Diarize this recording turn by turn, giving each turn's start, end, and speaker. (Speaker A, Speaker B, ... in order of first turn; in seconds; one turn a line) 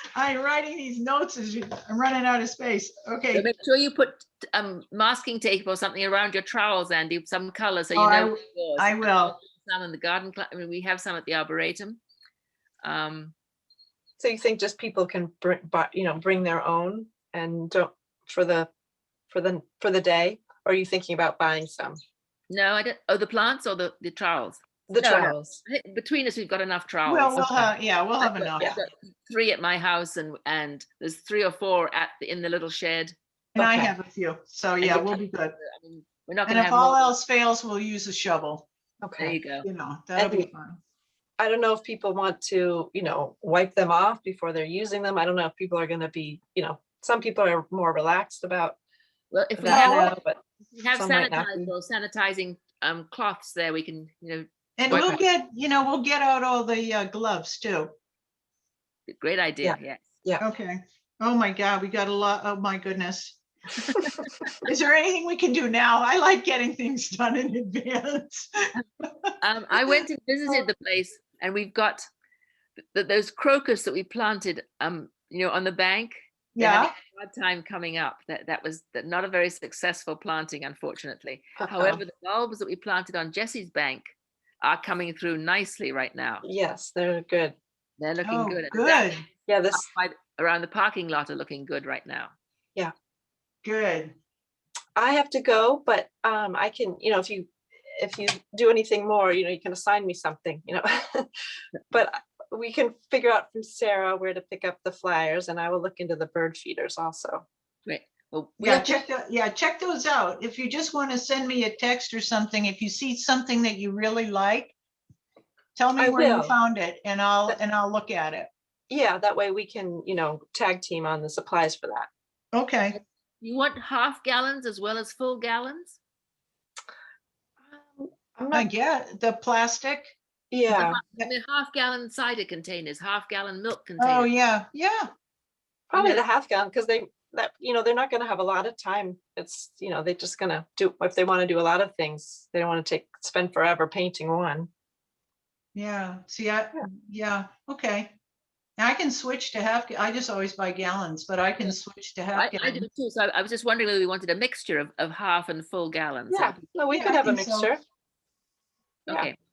Speaker A: 0.1-3.5
Speaker B: 3.3-12.0
Speaker A: 7.9-9.3
Speaker B: 12.8-13.3
Speaker C: 14.2-18.7
Speaker C: 19.3-22.0
Speaker B: 22.5-33.1
Speaker C: 24.9-25.6
Speaker A: 27.0-28.7
Speaker A: 33.5-35.6
Speaker C: 33.6-33.9
Speaker B: 34.8-37.1
Speaker A: 36.5-38.7
Speaker C: 39.0-39.4
Speaker B: 39.2-39.7
Speaker A: 39.6-40.8
Speaker C: 40.1-40.5
Speaker C: 41.4-48.8
Speaker B: 49.3-50.1
Speaker C: 49.6-50.4
Speaker A: 49.7-50.1
Speaker B: 50.7-55.2
Speaker C: 50.9-51.7
Speaker A: 54.8-57.9
Speaker C: 54.9-55.2
Speaker B: 59.1-60.0
Speaker C: 59.6-60.4
Speaker A: 60.4-63.4
Speaker C: 63.9-64.2
Speaker A: 64.6-69.3
Speaker B: 69.4-72.0
Speaker B: 72.9-84.0
Speaker A: 76.6-76.9
Speaker C: 81.6-82.0
Speaker B: 84.6-86.5
Speaker C: 86.4-87.6
Speaker B: 88.0-92.3
Speaker A: 88.2-89.2
Speaker C: 89.5-89.8
Speaker A: 93.6-94.2
Speaker C: 95.0-101.3
Speaker C: 101.9-107.4
Speaker B: 107.8-109.0
Speaker A: 108.6-114.8
Speaker A: 115.8-118.5
Speaker C: 116.0-116.6
Speaker C: 118.9-122.1
Speaker A: 122.5-123.0
Speaker B: 123.0-126.0
Speaker C: 127.6-128.7
Speaker A: 128.5-130.1
Speaker C: 130.5-131.0
Speaker B: 130.7-134.3
Speaker A: 134.0-135.1
Speaker C: 135.9-144.7
Speaker A: 135.9-136.2
Speaker A: 145.8-148.1
Speaker A: 148.8-152.9
Speaker B: 152.3-157.1
Speaker C: 156.3-157.8
Speaker A: 156.9-157.7
Speaker B: 159.1-159.4